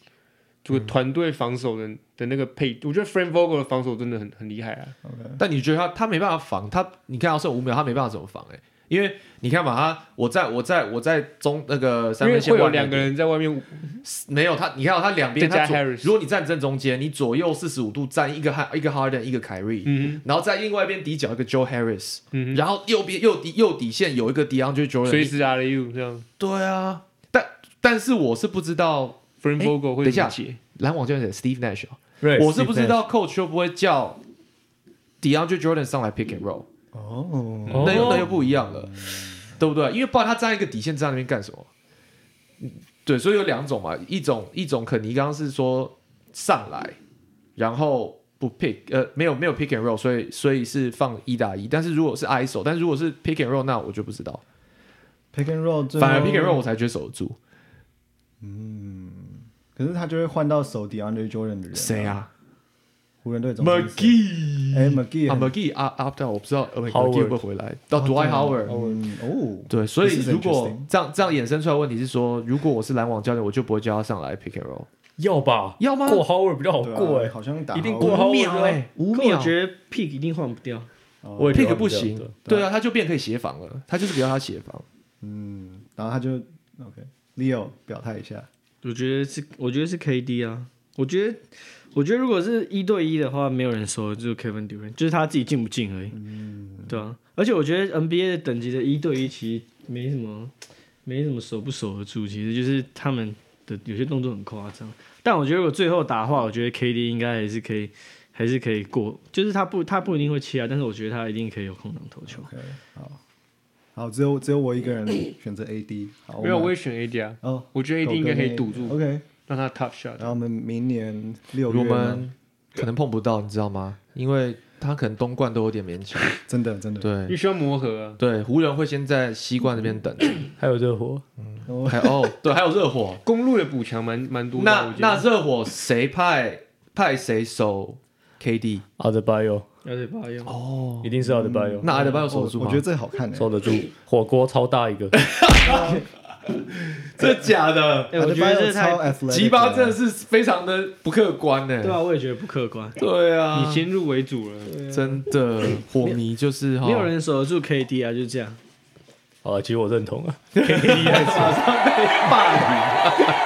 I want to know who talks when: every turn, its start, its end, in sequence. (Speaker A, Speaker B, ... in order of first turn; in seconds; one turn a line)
Speaker A: 0.7-4.9
Speaker B: 5.0-5.4
Speaker C: 5.4-13.1
Speaker A: 12.2-14.0
Speaker C: 14.0-25.3
Speaker A: 15.4-16.1
Speaker A: 19.9-20.2
Speaker A: 22.3-22.6
Speaker A: 25.1-26.3
Speaker C: 26.4-34.2
Speaker A: 29.4-30.6
Speaker D: 32.2-33.0
Speaker C: 35.2-36.7
Speaker B: 36.9-39.5
Speaker D: 37.7-38.3
Speaker C: 37.8-39.0
Speaker C: 39.6-41.7
Speaker C: 42.6-47.0
Speaker C: 47.6-54.4
Speaker B: 55.3-56.6
Speaker C: 56.0-57.4
Speaker B: 58.4-62.2
Speaker C: 61.7-62.3
Speaker B: 63.2-64.2
Speaker C: 63.6-68.8
Speaker B: 64.7-65.5
Speaker D: 66.9-67.4
Speaker B: 68.0-70.9
Speaker C: 69.7-74.9
Speaker D: 75.2-78.8
Speaker C: 75.8-76.3
Speaker B: 76.8-78.3
Speaker C: 78.0-79.5
Speaker E: 79.1-80.9
Speaker B: 81.2-81.9
Speaker D: 81.4-82.4
Speaker C: 81.5-84.8
Speaker B: 82.4-82.7
Speaker B: 85.2-88.5
Speaker E: 88.8-96.2
Speaker B: 96.1-97.0
Speaker E: 96.9-100.5
Speaker E: 101.1-112.5
Speaker B: 112.3-113.2
Speaker B: 114.0-116.7
Speaker A: 116.4-120.3
Speaker B: 117.4-119.2
Speaker B: 120.2-122.3
Speaker C: 121.7-126.4
Speaker B: 126.5-127.1
Speaker C: 127.0-127.4
Speaker A: 127.3-128.2
Speaker C: 128.2-130.5
Speaker D: 130.6-131.2
Speaker C: 131.4-133.2
Speaker B: 131.7-132.3
Speaker A: 133.2-135.3
Speaker C: 134.6-138.8
Speaker D: 139.0-139.7
Speaker E: 139.8-140.5
Speaker C: 140.5-141.1
Speaker D: 141.0-141.9
Speaker B: 141.2-143.5
Speaker C: 141.8-142.8
Speaker D: 143.4-145.1
Speaker C: 145.2-146.0
Speaker E: 145.7-145.9
Speaker B: 145.7-146.0
Speaker C: 147.0-148.2
Speaker E: 148.1-149.1
Speaker B: 148.1-150.0
Speaker C: 149.3-152.0
Speaker E: 151.8-153.0
Speaker C: 153.0-153.9
Speaker A: 153.5-154.8
Speaker E: 154.7-155.2
Speaker C: 154.9-157.1
Speaker E: 156.8-158.6
Speaker D: 159.4-161.7
Speaker E: 160.6-163.2
Speaker C: 161.0-163.1